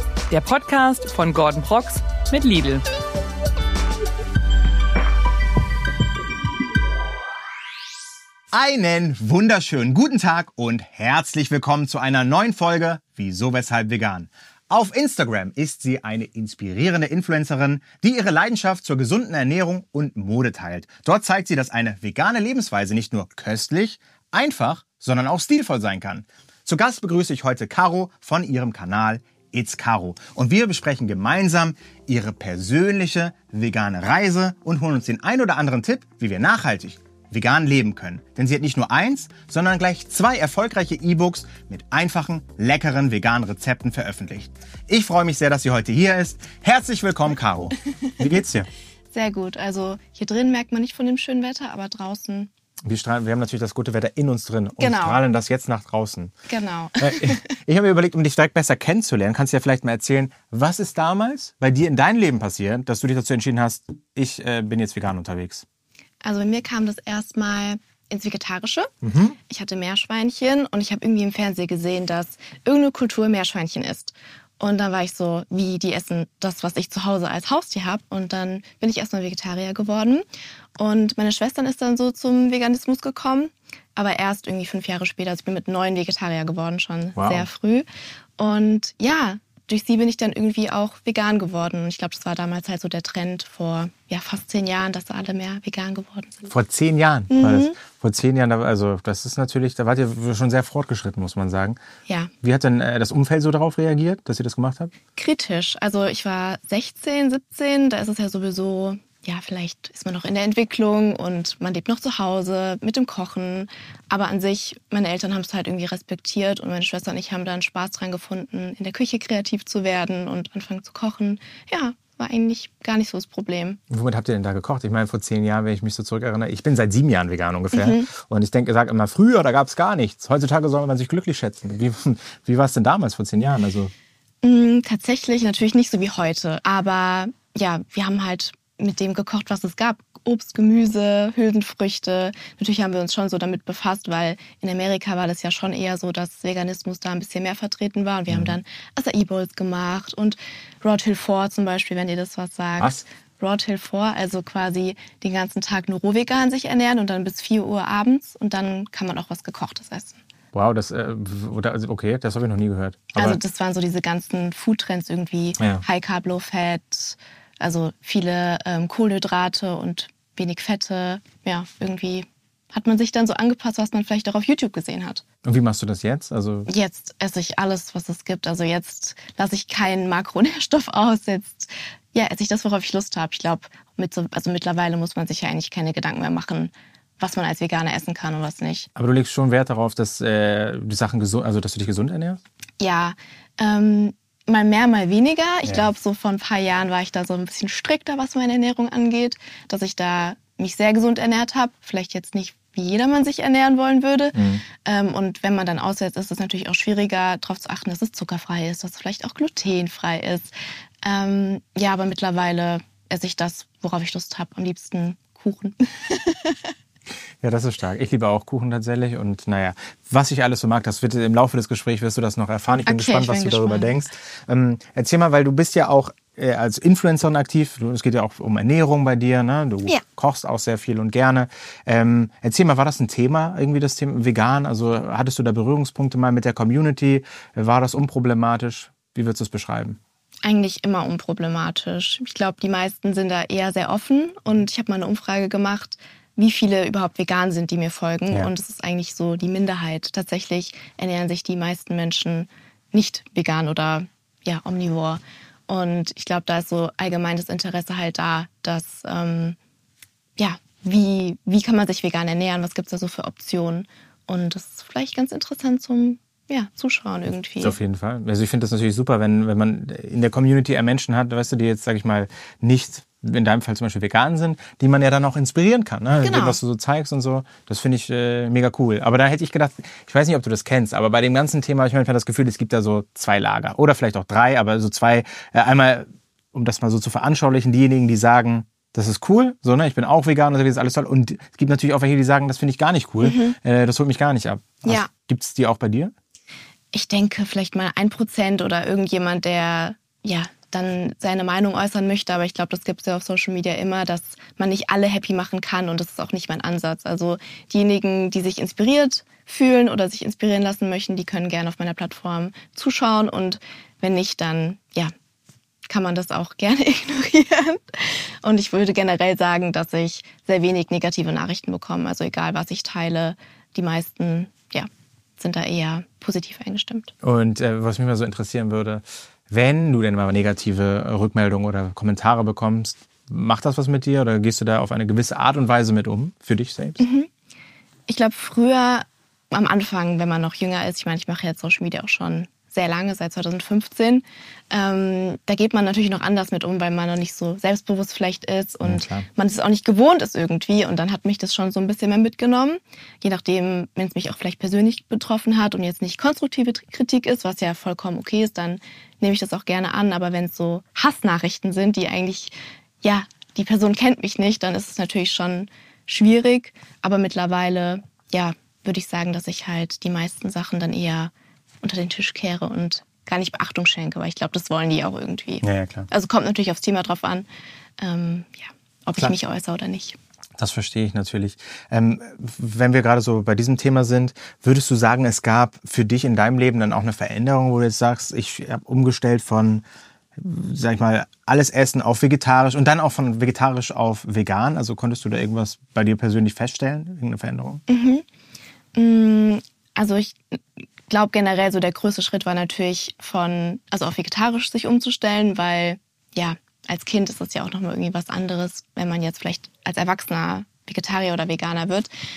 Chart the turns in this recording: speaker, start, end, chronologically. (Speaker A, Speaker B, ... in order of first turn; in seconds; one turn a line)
Speaker A: 0.3-2.9
Speaker B: 8.5-48.7
Speaker C: 49.1-52.5
Speaker B: 52.9-56.3
Speaker C: 54.8-55.2
Speaker C: 56.5-57.4
Speaker B: 57.0-65.7
Speaker C: 66.2-80.2
Speaker B: 69.0-69.4
Speaker C: 80.8-87.9
Speaker B: 87.2-87.5
Speaker C: 88.4-96.5
Speaker B: 96.5-101.8
Speaker C: 97.3-97.8
Speaker C: 102.1-102.3
Speaker B: 102.4-104.9
Speaker C: 105.2-123.8
Speaker B: 123.9-133.9
Speaker C: 127.7-128.1
Speaker C: 134.4-160.2
Speaker B: 148.3-148.6
Speaker B: 152.8-153.0
Speaker B: 160.5-163.4
Speaker C: 163.1-175.2
Speaker B: 175.4-176.7
Speaker C: 176.7-188.9
Speaker B: 189.0-192.4
Speaker C: 192.8-210.5
Speaker B: 204.3-204.6
Speaker C: 211.0-216.6
Speaker B: 217.4-240.0
Speaker C: 222.8-224.0
Speaker C: 240.4-259.6
Speaker C: 260.4-267.8
Speaker B: 267.6-296.1
Speaker C: 276.2-276.6
Speaker C: 293.2-293.6
Speaker C: 294.8-295.1
Speaker C: 296.9-315.1
Speaker C: 315.9-327.1
Speaker B: 327.2-337.0
Speaker C: 337.0-337.3
Speaker C: 338.1-377.5
Speaker B: 348.8-349.3
Speaker B: 375.6-376.1
Speaker C: 378.0-380.2
Speaker B: 380.6-389.9
Speaker B: 390.4-397.8
Speaker C: 397.9-398.2
Speaker C: 398.9-412.1